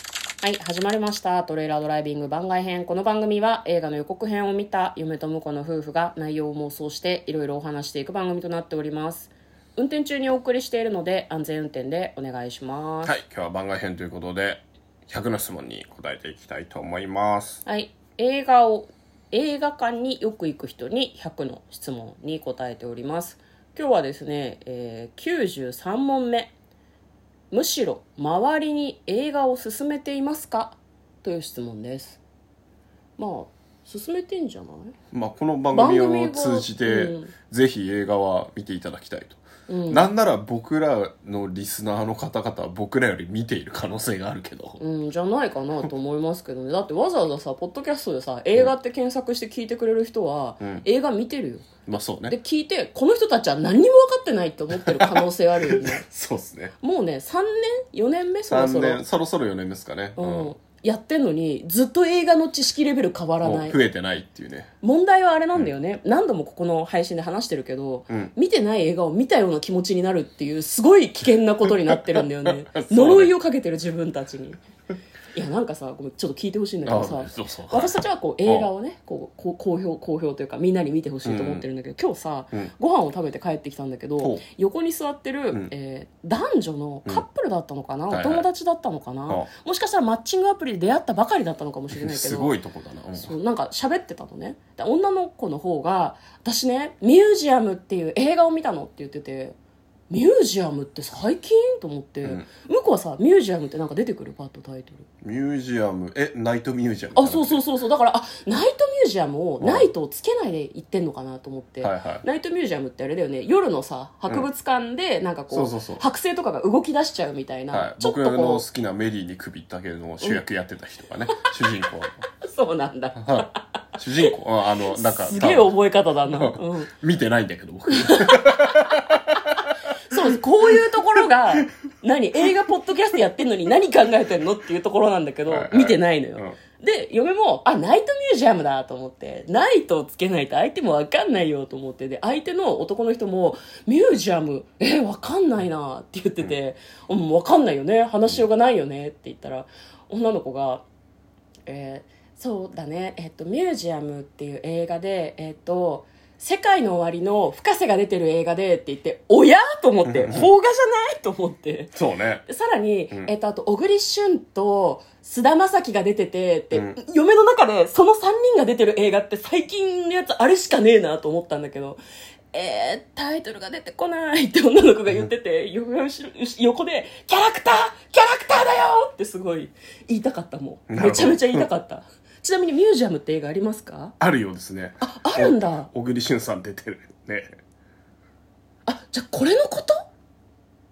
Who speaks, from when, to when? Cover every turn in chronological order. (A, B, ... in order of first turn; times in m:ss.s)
0:00.4-0:13.2 A
0:13.0-0:17.6 B
0:17.6-0:26.5 A
0:27.5-0:32.2 A
0:33.2-0:35.0 A
0:35.1-0:44.8 B
0:35.7-0:37.3 A
0:39.7-0:40.1 A
0:44.8-0:51.7 A
0:50.6-0:50.8 B
0:51.9-0:52.4 B
0:52.3-0:56.0 A
0:54.7-0:56.7 B
0:56.8-0:59.0 A
0:58.5-1:00.5 B
1:00.2-1:03.8 A
1:03.4-1:04.7 B
1:04.8-1:14.6 A
1:11.9-1:13.3 B
1:15.3-1:32.6 A
1:16.8-1:18.7 B
1:21.2-1:21.6 B
1:28.1-1:28.5 B
1:31.9-1:33.3 B
1:33.2-1:39.6 A
1:40.1-1:45.1 A
1:45.2-1:47.6 B
1:47.2-1:58.7 A
1:49.6-1:49.9 B
1:51.8-1:52.2 B
1:55.5-1:56.0 B
1:57.7-2:02.2 B
2:02.4-2:03.6 A
2:03.2-2:05.7 B
2:04.8-2:06.9 A
2:06.3-2:09.7 B
2:07.9-2:30.8 A
2:15.5-2:16.5 B
2:31.7-2:52.0 A
2:40.1-2:40.5 B
2:41.9-2:42.4 B
2:46.7-2:47.0 B
2:52.5-3:04.2 A
3:00.9-3:01.7 B
3:04.2-3:07.6 B
3:05.0-3:05.9 A
3:08.9-3:10.0 A